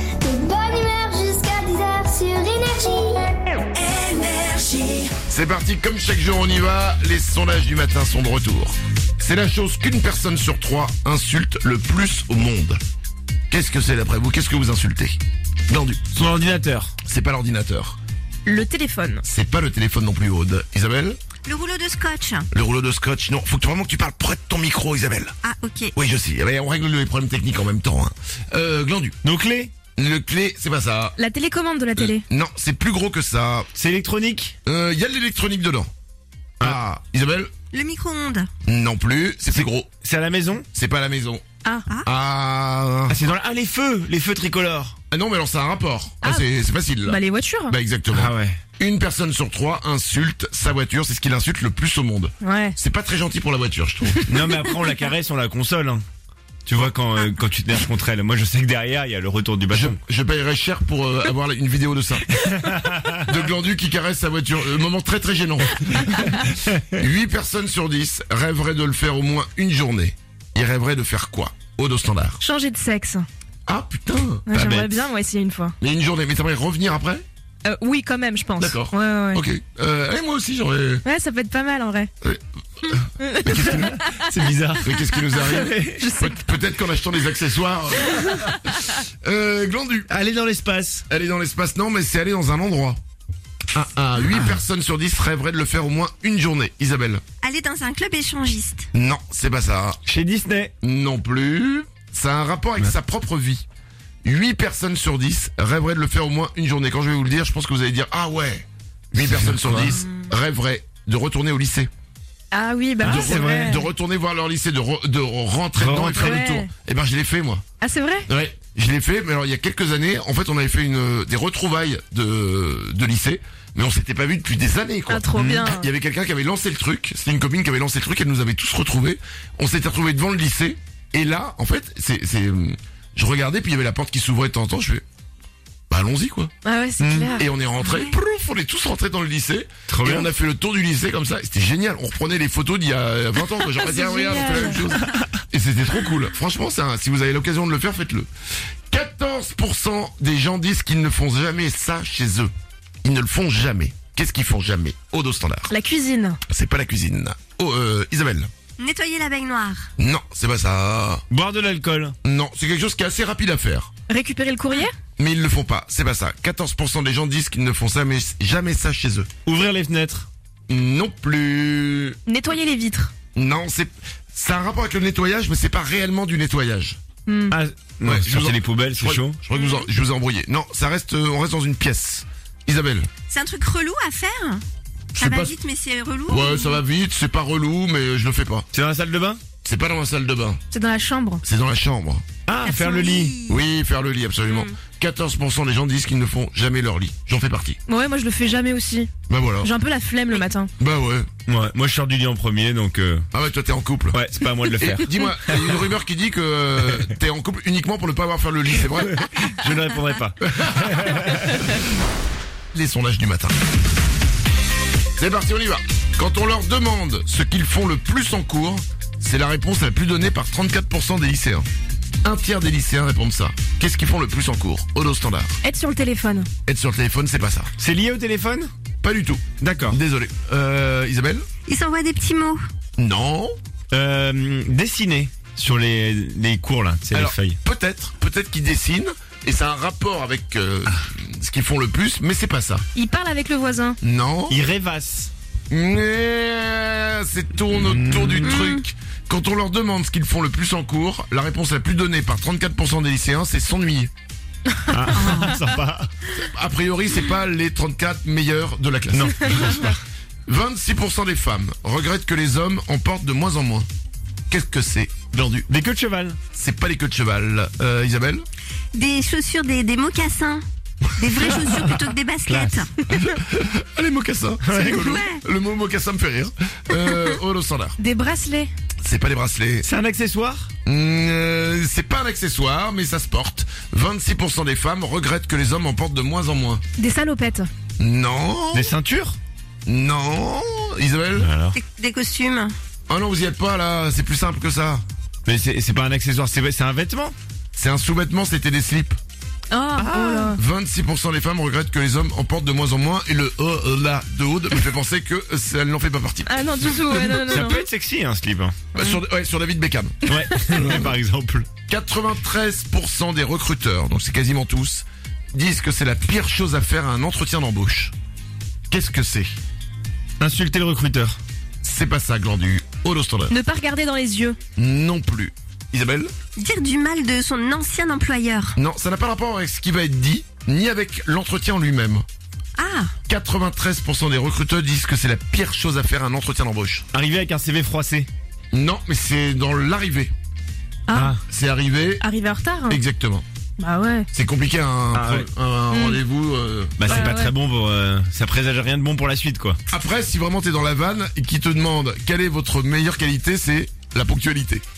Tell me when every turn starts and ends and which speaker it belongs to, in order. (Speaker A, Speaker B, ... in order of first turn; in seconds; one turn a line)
Speaker A: 0.2-3.3
Speaker B: 3.8-5.0
Speaker C: 5.3-12.8
Speaker C: 13.5-16.3
Speaker D: 16.1-16.9
Speaker C: 17.0-18.0
Speaker E: 18.5-19.2
Speaker C: 19.2-21.2
Speaker B: 21.5-22.5
Speaker C: 22.5-25.4
Speaker B: 25.4-25.9
Speaker C: 25.9-29.2
Speaker D: 29.2-29.7
Speaker C: 30.0-31.2
Speaker E: 31.2-32.2
Speaker C: 32.0-33.7
Speaker D: 33.7-34.5
Speaker C: 34.6-35.9
Speaker C: 36.6-37.5
Speaker B: 37.7-38.5
Speaker C: 38.6-39.9
Speaker D: 40.0-40.7
Speaker C: 40.7-41.4
Speaker C: 42.1-43.2
Speaker D: 43.1-45.0
Speaker C: 45.1-54.6
Speaker E: 47.0-47.8
Speaker D: 48.1-48.6
Speaker E: 52.4-52.8
Speaker D: 54.3-56.0
Speaker D: 56.7-60.0
Speaker C: 59.7-62.4
Speaker D: 62.5-63.2
Speaker C: 63.2-66.4
Speaker D: 66.5-66.8
Speaker C: 66.9-72.4
Speaker E: 72.4-73.2
Speaker C: 73.7-74.5
Speaker E: 74.5-75.8
Speaker D: 74.5-75.0
Speaker C: 75.8-77.2
Speaker E: 77.7-79.4
Speaker C: 78.6-81.0
Speaker E: 81.0-82.1
Speaker E: 83.2-84.3
Speaker C: 83.4-84.0
Speaker D: 83.5-86.0
Speaker C: 84.8-90.1
Speaker E: 86.0-86.4
Speaker D: 90.1-91.0
Speaker C: 91.1-93.0
Speaker C: 93.7-97.2
Speaker B: 97.4-98.9
Speaker C: 98.9-100.0
Speaker D: 100.0-100.7
Speaker C: 100.8-103.7
Speaker C: 104.2-111.9
Speaker D: 109.1-110.0
Speaker E: 112.5-113.8
Speaker D: 113.0-113.8
Speaker C: 113.0-117.6
Speaker D: 115.8-116.4
Speaker E: 116.2-116.7
Speaker E: 117.8-118.3
Speaker C: 118.3-135.0
Speaker E: 125.1-125.9
Speaker D: 125.4-125.7
Speaker C: 135.9-136.5
Speaker E: 136.6-137.4
Speaker D: 137.0-137.3
Speaker C: 137.3-148.3
Speaker B: 137.8-138.2
Speaker D: 139.9-140.3
Speaker E: 143.8-144.8
Speaker C: 148.9-152.5
Speaker C: 153.0-155.7
Speaker E: 155.7-156.4
Speaker C: 156.5-158.5
Speaker B: 158.8-159.9
Speaker C: 160.0-161.2
Speaker D: 161.3-162.2
Speaker C: 162.2-163.9
Speaker E: 164.1-164.9
Speaker C: 165.2-169.3
Speaker D: 169.4-170.3
Speaker C: 170.7-172.2
Speaker E: 172.3-173.1
Speaker C: 173.3-177.0
Speaker E: 177.3-177.6
Speaker D: 177.5-179.4
Speaker C: 178.0-183.1
Speaker B: 183.3-186.8
Speaker C: 185.2-185.6
Speaker C: 186.3-188.7
Speaker D: 188.7-189.4
Speaker C: 189.6-190.6
Speaker E: 190.7-191.4
Speaker C: 191.4-192.2
Speaker D: 192.5-193.3
Speaker B: 192.6-193.6
Speaker C: 193.5-197.8
Speaker B: 194.5-194.7
Speaker E: 197.9-199.1
Speaker C: 199.3-199.7
Speaker E: 199.6-200.7
Speaker C: 200.8-201.3
Speaker D: 201.5-203.3
Speaker C: 203.3-204.2
Speaker D: 204.1-205.8
Speaker C: 204.8-209.2
Speaker D: 209.0-211.6
Speaker C: 210.4-211.5
Speaker C: 212.7-213.6
Speaker C: 215.2-221.7
Speaker C: 222.2-225.6
Speaker E: 225.6-226.5
Speaker C: 226.7-227.7
Speaker D: 227.8-228.7
Speaker C: 229.0-231.4
Speaker D: 229.6-230.0
Speaker B: 231.7-232.6
Speaker C: 233.0-233.6
Speaker D: 233.9-237.6
Speaker C: 237.1-242.8
Speaker E: 242.9-244.0
Speaker C: 244.0-244.6
Speaker D: 244.5-245.3
Speaker C: 245.7-254.1
Speaker D: 247.8-248.7
Speaker B: 248.5-248.8
Speaker D: 254.9-256.1
Speaker B: 255.2-255.5
Speaker C: 256.4-259.9
Speaker D: 259.1-260.0
Speaker C: 260.5-263.9
Speaker C: 264.5-265.7
Speaker D: 265.7-266.4
Speaker C: 266.5-268.4
Speaker B: 268.9-270.6
Speaker B: 271.2-272.9
Speaker C: 271.3-271.9
Speaker D: 272.4-272.9
Speaker C: 273.1-278.0
Speaker D: 274.6-275.1
Speaker B: 274.9-275.4
Speaker E: 278.0-278.7
Speaker C: 279.0-279.9
Speaker D: 279.8-280.7
Speaker C: 280.9-286.8
Speaker E: 287.0-287.7
Speaker C: 288.0-289.0
Speaker D: 288.7-289.4
Speaker C: 289.9-291.5
Speaker D: 291.4-291.8
Speaker B: 291.7-292.7
Speaker C: 293.1-295.0
Speaker D: 295.4-297.4
Speaker C: 297.8-299.2
Speaker E: 299.7-300.6
Speaker D: 300.0-300.6
Speaker C: 300.6-307.3
Speaker E: 306.5-307.8
Speaker D: 307.3-308.8
Speaker C: 308.9-311.1
Speaker D: 310.3-311.7
Speaker C: 311.9-318.1
Speaker C: 318.9-319.5
Speaker D: 320.4-321.4
Speaker C: 321.8-323.6
Speaker E: 323.5-324.6
Speaker C: 324.8-326.3
Speaker B: 326.6-328.8
Speaker C: 328.8-332.2
Speaker B: 332.8-333.1
Speaker C: 333.3-337.0
Speaker D: 337.1-338.3
Speaker C: 338.7-340.3
Speaker E: 341.1-341.4
Speaker D: 341.1-341.4
Speaker C: 341.4-342.2
Speaker E: 342.2-343.0
Speaker C: 342.9-343.4
Speaker E: 343.8-344.3
Speaker C: 344.3-347.3
Speaker D: 345.1-345.5
Speaker E: 345.9-346.2
Speaker D: 347.0-349.8
Speaker E: 347.1-347.5
Speaker C: 349.9-354.8